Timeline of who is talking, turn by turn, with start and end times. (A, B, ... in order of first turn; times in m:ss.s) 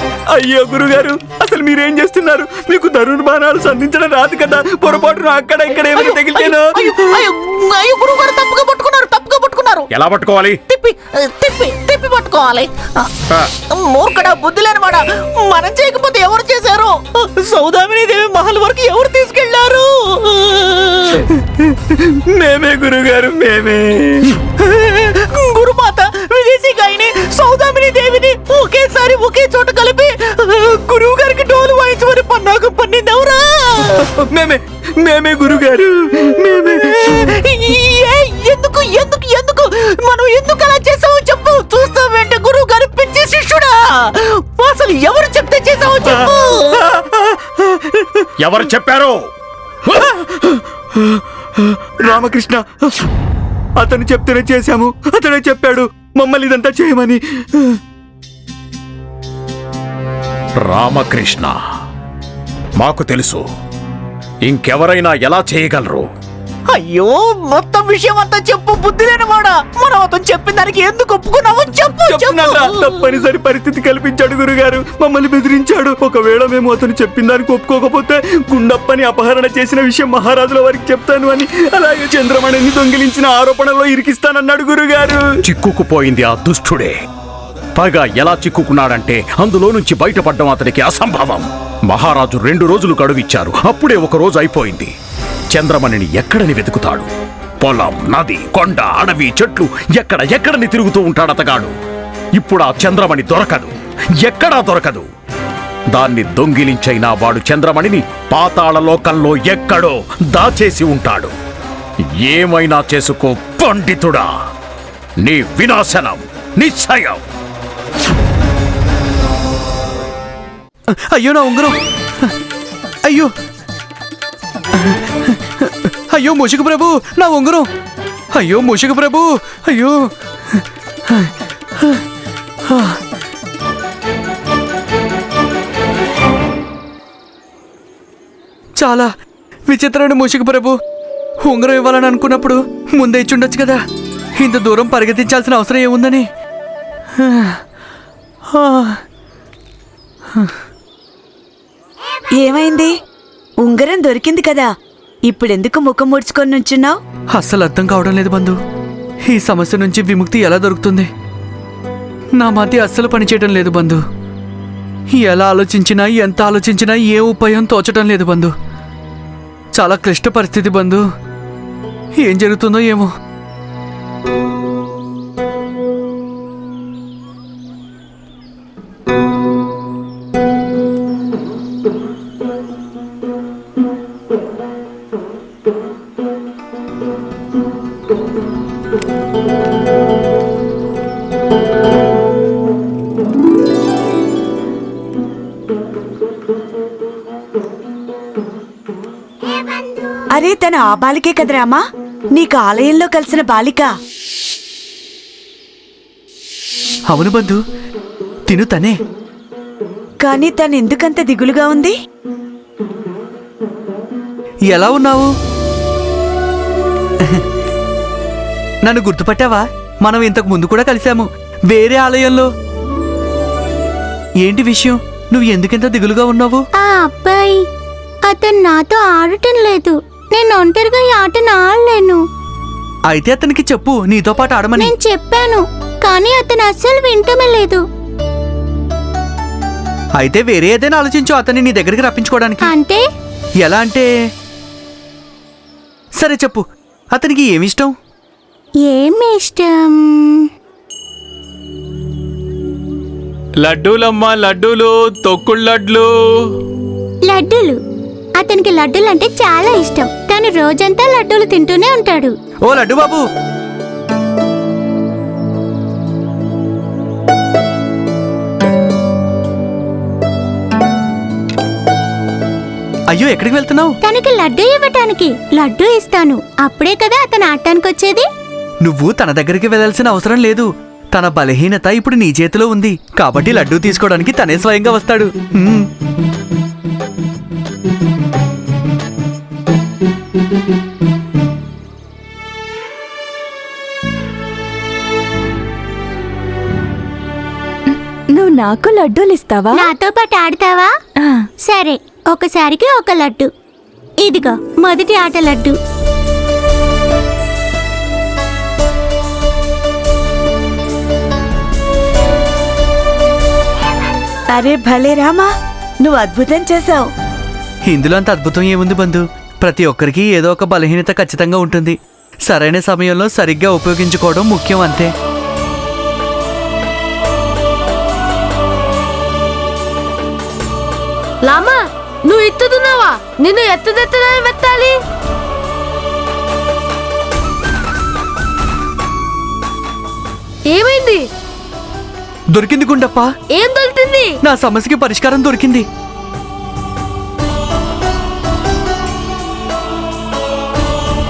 0:00.3-0:07.2 A
0:05.9-0:09.9 B
0:09.9-0:10.6 C
0:10.7-0:21.2 B
0:21.6-0:25.0 A
0:24.6-0:34.0 B
0:34.0-0:37.3 A
0:37.2-0:46.8 B
0:46.0-0:48.3 A
0:48.4-0:49.2 C
0:49.9-0:53.1 A
0:53.8-0:57.8 A
1:00.6-1:01.5 C
1:02.8-1:03.4 C
1:04.4-1:06.1 C
1:06.7-1:12.9 B
1:12.0-1:25.2 A
1:25.4-1:27.0 C
1:27.8-1:34.9 C
1:35.5-1:37.1 C
1:37.6-1:41.7 C
1:42.4-1:45.1 C
1:45.9-1:51.3 C
1:52.2-1:54.3 C
1:55.2-1:57.2 C
2:00.9-2:02.3 D
2:03.0-2:03.3 D
2:04.7-2:07.7 D
2:08.3-2:12.0 D
2:12.7-2:13.0 D
2:18.8-2:19.1 D
2:19.7-2:20.8 D
2:21.4-2:23.8 D
2:24.4-2:26.3 D
2:27.2-2:27.6 D
2:28.5-2:29.0 D
2:32.4-2:32.9 E
2:33.6-2:34.7 E
2:35.2-2:37.0 E
2:37.3-2:38.6 D
2:39.3-2:41.1 D
2:42.3-2:44.0 D
2:45.1-2:48.5 D
2:49.8-2:51.0 D
2:52.2-2:53.1 D
3:20.4-3:21.8 E
3:22.3-3:23.9 E
3:27.1-3:27.6 D
3:28.5-3:29.0 D
3:30.2-3:31.9 E
3:34.7-3:35.3 D
3:38.8-3:42.5 D
3:44.4-3:46.6 D
3:46.8-3:47.6 F
3:48.3-3:52.2 F
3:53.1-3:54.9 D
3:54.8-3:57.8 F
4:00.2-4:02.7 D
4:02.6-4:03.0 F
4:03.6-4:04.1 D
4:06.2-4:07.9 D
4:08.8-4:10.5 F
4:13.6-4:16.1 G
4:17.2-4:17.8 F
4:18.4-4:22.3 F
4:22.6-4:23.2 D
4:33.1-4:34.0 D
4:34.0-4:38.2 F
4:38.8-4:45.9 D
4:58.3-4:59.7 H
4:59.7-5:00.9 F
5:01.6-5:03.5 F
5:04.2-5:05.8 F
5:14.5-5:15.5 E
5:16.0-5:17.1 E
5:17.8-5:25.1 D
5:31.4-5:35.0 H
5:40.7-5:41.2 H
5:42.5-5:43.3 D
5:43.5-5:44.4 H
5:44.4-5:45.9 D